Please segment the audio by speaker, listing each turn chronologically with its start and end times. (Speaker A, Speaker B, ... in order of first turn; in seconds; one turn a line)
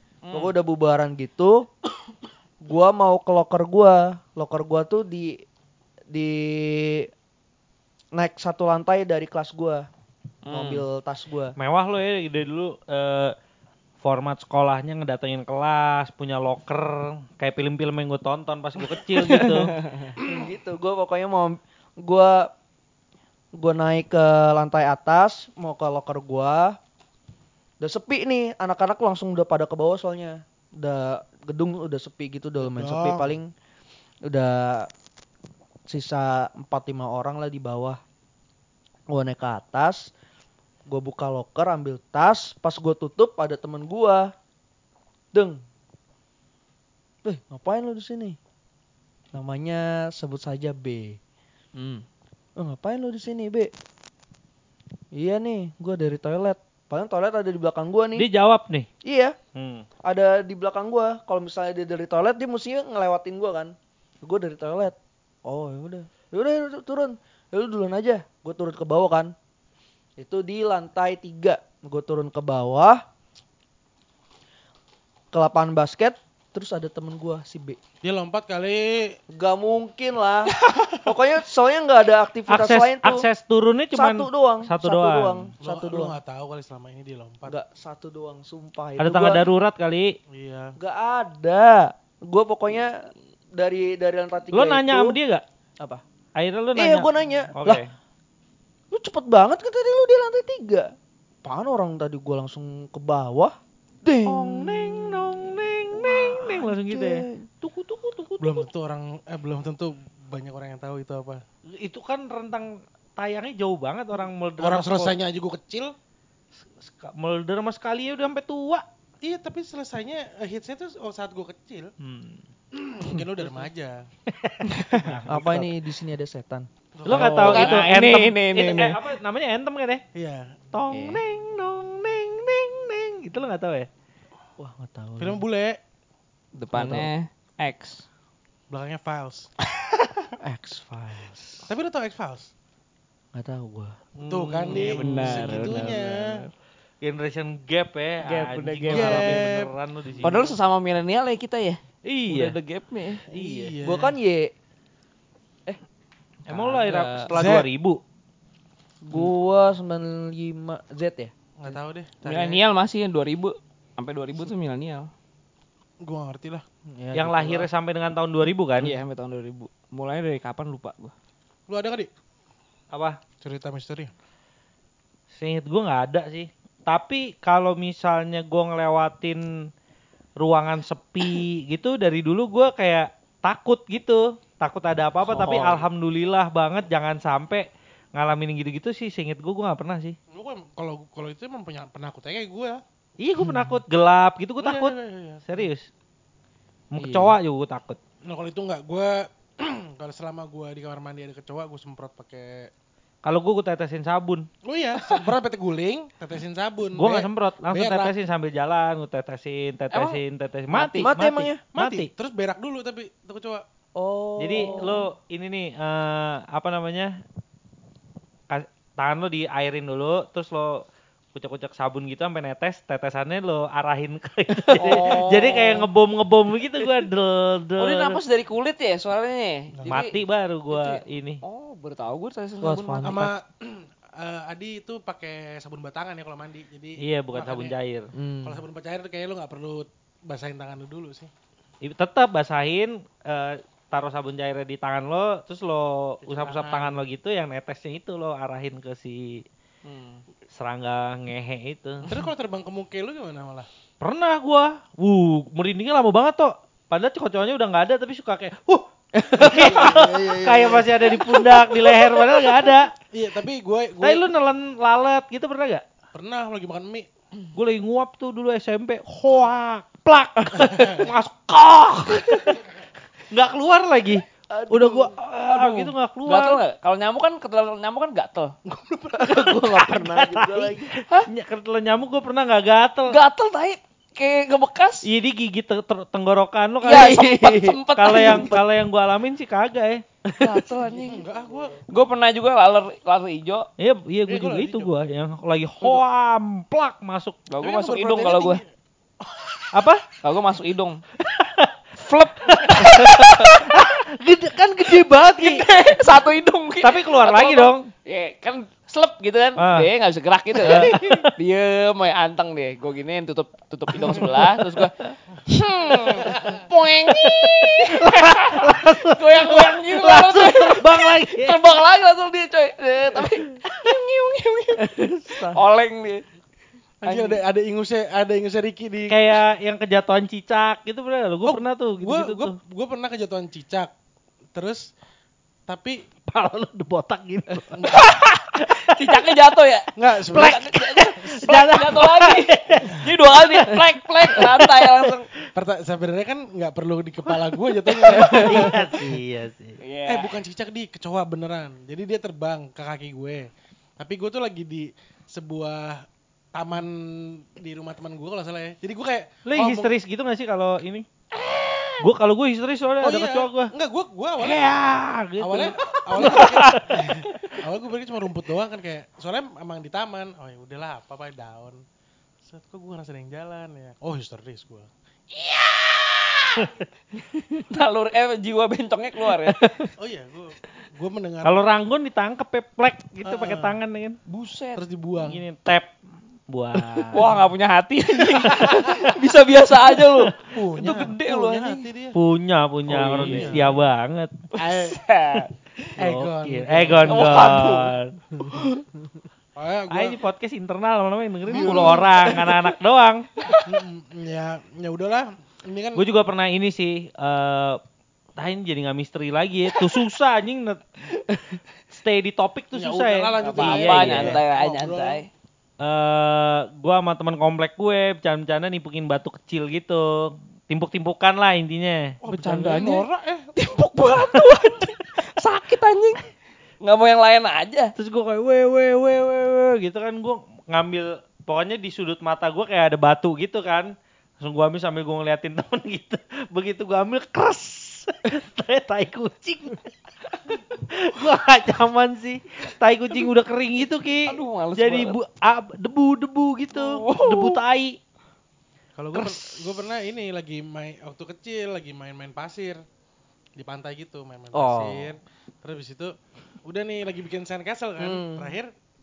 Speaker A: 0.2-0.5
Speaker B: 0.3-1.7
Speaker B: 2.6-5.4
Speaker B: 6.1-7.1
Speaker B: 8.1-9.9
Speaker A: 10.4-10.8
Speaker B: 10.5-11.6
Speaker C: 11.6-13.4
Speaker C: 14.0-19.8
Speaker A: 19.2-20.1
Speaker B: 20.2-22.5
Speaker B: 23.5-26.8
Speaker B: 27.8-33.5
Speaker D: 32.6-33.3
Speaker B: 34.3-34.9
Speaker B: 35.9-38.0
Speaker B: 39.1-40.1
Speaker B: 40.9-44.3
Speaker B: 45.3-45.6
Speaker B: 47.2-48.4
Speaker B: 49.3-51.2
Speaker A: 51.8-52.0
Speaker B: 52.6-53.7
Speaker B: 55.1-58.3
Speaker C: 58.2-58.9
Speaker B: 59.0-59.4
Speaker C: 59.5-59.9
Speaker B: 60.0-69.3
Speaker B: 70.2-73.0
Speaker B: 75.3-77.8
Speaker D: 78.0-79.2
Speaker B: 79.3-83.3
Speaker A: 80.6-81.0
Speaker C: 82.5-85.5
Speaker B: 83.9-86.1
Speaker D: 85.6-87.6
Speaker B: 87.5-89.4
Speaker C: 89.0-90.1
Speaker D: 90.3-90.8
Speaker B: 90.8-95.2
Speaker C: 94.5-95.4
Speaker C: 96.4-97.9
Speaker B: 96.8-97.8
Speaker B: 98.9-100.9
Speaker B: 101.4-107.5
Speaker C: 104.3-108.7
Speaker D: 108.4-111.4
Speaker C: 111.8-115.2
Speaker D: 114.6-115.9
Speaker C: 116.6-118.8
Speaker D: 119.2-121.9
Speaker C: 122.0-122.4
Speaker D: 122.7-124.1
Speaker C: 124.3-125.7
Speaker A: 124.7-125.1
Speaker D: 124.9-125.7
Speaker B: 125.3-126.7
Speaker D: 127.0-127.9
Speaker C: 127.0-130.0
Speaker A: 127.1-129.0
Speaker D: 130.1-130.6
Speaker C: 130.7-133.9
Speaker A: 130.9-131.2
Speaker B: 134.6-135.4
Speaker D: 135.2-135.8
Speaker A: 136.6-138.1
Speaker B: 136.7-137.1
Speaker D: 138.7-139.5
Speaker B: 140.4-141.7
Speaker D: 141.7-142.5
Speaker B: 143.3-144.0
Speaker D: 144.2-146.4
Speaker C: 144.6-146.0
Speaker A: 144.6-146.5
Speaker C: 147.0-150.6
Speaker A: 148.2-149.5
Speaker D: 148.9-149.7
Speaker A: 150.2-153.2
Speaker C: 152.1-152.6
Speaker D: 153.3-154.1
Speaker C: 153.3-153.8
Speaker B: 153.8-154.5
Speaker A: 156.5-157.4
Speaker C: 156.5-158.0
Speaker D: 157.3-157.7
Speaker B: 159.1-161.3
Speaker D: 161.6-162.6
Speaker A: 162.2-165.1
Speaker D: 166.0-166.6
Speaker B: 166.9-167.7
Speaker C: 167.1-169.0
Speaker A: 168.8-171.1
Speaker D: 171.7-172.1
Speaker C: 172.9-173.2
Speaker D: 173.4-174.1
Speaker C: 175.3-179.4
Speaker C: 180.4-190.2
Speaker A: 185.2-185.8
Speaker D: 190.3-192.8
Speaker C: 193.2-195.9
Speaker D: 194.6-195.7
Speaker C: 196.9-198.0
Speaker D: 198.2-202.7
Speaker C: 203.2-204.5
Speaker D: 204.6-208.1
Speaker C: 207.0-212.1
Speaker A: 209.9-210.2
Speaker A: 210.7-211.1
Speaker B: 210.9-211.6
Speaker D: 211.7-213.6
Speaker B: 214.0-215.0
Speaker C: 214.4-217.2
Speaker C: 218.5-228.2
Speaker A: 224.7-225.9
Speaker A: 227.8-230.2
Speaker C: 229.9-231.4
Speaker A: 230.7-233.2
Speaker B: 232.6-233.3
Speaker D: 233.0-237.8
Speaker C: 237.0-238.1
Speaker B: 238.1-238.6
Speaker D: 238.4-241.3
Speaker C: 241.8-249.4
Speaker D: 246.2-247.0
Speaker A: 249.8-250.2
Speaker C: 250.5-252.1
Speaker D: 252.0-253.7
Speaker C: 254.0-262.9
Speaker B: 259.2-262.5
Speaker D: 259.7-260.1
Speaker D: 263.1-264.3
Speaker C: 264.0-265.8
Speaker D: 266.1-267.1
Speaker C: 267.5-272.6
Speaker D: 270.7-271.1
Speaker C: 273.3-276.6
Speaker B: 274.5-275.1
Speaker A: 275.5-278.5
Speaker D: 278.7-279.4
Speaker B: 279.2-280.9
Speaker C: 279.3-283.2
Speaker A: 283.1-285.1
Speaker C: 285.1-287.3
Speaker A: 286.8-288.6
Speaker B: 286.9-288.6
Speaker C: 287.9-290.0
Speaker B: 290.3-290.7
Speaker A: 290.4-291.3
Speaker D: 290.9-291.8
Speaker A: 291.9-293.7
Speaker C: 293.8-297.4
Speaker D: 294.3-294.9
Speaker A: 297.5-298.6
Speaker D: 297.6-298.6
Speaker D: 299.2-299.6
Speaker C: 299.7-300.0
Speaker A: 300.2-301.0
Speaker C: 301.2-305.7
Speaker A: 302.1-303.8
Speaker A: 305.0-326.2
Speaker C: 306.8-307.9
Speaker C: 309.6-309.9
Speaker C: 310.6-311.3
Speaker C: 314.0-314.5
Speaker D: 316.2-316.6
Speaker C: 317.1-321.6
Speaker B: 325.0-325.6
Speaker A: 327.0-327.4
Speaker D: 327.0-329.2
Speaker C: 329.1-332.6
Speaker D: 331.4-333.9
Speaker D: 334.5-334.9
Speaker D: 335.7-336.0
Speaker C: 336.3-339.2
Speaker D: 337.7-338.0
Speaker A: 337.9-345.3
Speaker D: 340.0-340.7
Speaker C: 340.3-344.9
Speaker D: 345.6-348.9
Speaker C: 348.0-349.8
Speaker A: 349.8-350.3
Speaker D: 350.1-359.9
Speaker C: 359.5-361.1
Speaker C: 362.0-363.7
Speaker D: 363.0-364.8
Speaker C: 364.4-367.6
Speaker D: 365.4-371.8
Speaker A: 366.2-366.7
Speaker D: 372.4-374.9
Speaker A: 375.3-376.7
Speaker A: 377.5-379.9
Speaker D: 380.0-381.6
Speaker C: 381.4-384.2
Speaker D: 383.3-383.8
Speaker A: 384.3-384.8
Speaker D: 384.8-385.4
Speaker C: 385.2-385.9
Speaker C: 386.5-387.4
Speaker A: 387.1-391.9
Speaker C: 388.5-389.0
Speaker C: 390.1-390.3
Speaker D: 390.5-392.2
Speaker C: 392.1-394.4
Speaker A: 392.9-393.8
Speaker D: 392.9-393.8
Speaker A: 394.5-395.9
Speaker D: 394.6-395.0
Speaker D: 396.0-397.8
Speaker C: 396.0-398.2
Speaker A: 397.1-397.9
Speaker D: 399.6-400.2
Speaker C: 399.9-403.3
Speaker D: 401.5-402.5
Speaker A: 401.6-402.1
Speaker D: 403.6-406.1
Speaker C: 405.9-407.8
Speaker C: 408.4-411.1
Speaker C: 411.9-414.4
Speaker D: 412.7-415.2
Speaker A: 413.4-415.3
Speaker C: 415.8-422.2
Speaker D: 422.2-423.5
Speaker A: 422.3-426.3
Speaker A: 426.8-427.9
Speaker C: 428.0-439.9
Speaker C: 440.4-448.0
Speaker A: 444.3-445.2
Speaker A: 446.7-447.6
Speaker D: 448.9-452.8
Speaker D: 453.6-458.7
Speaker C: 454.5-455.1
Speaker B: 458.0-458.6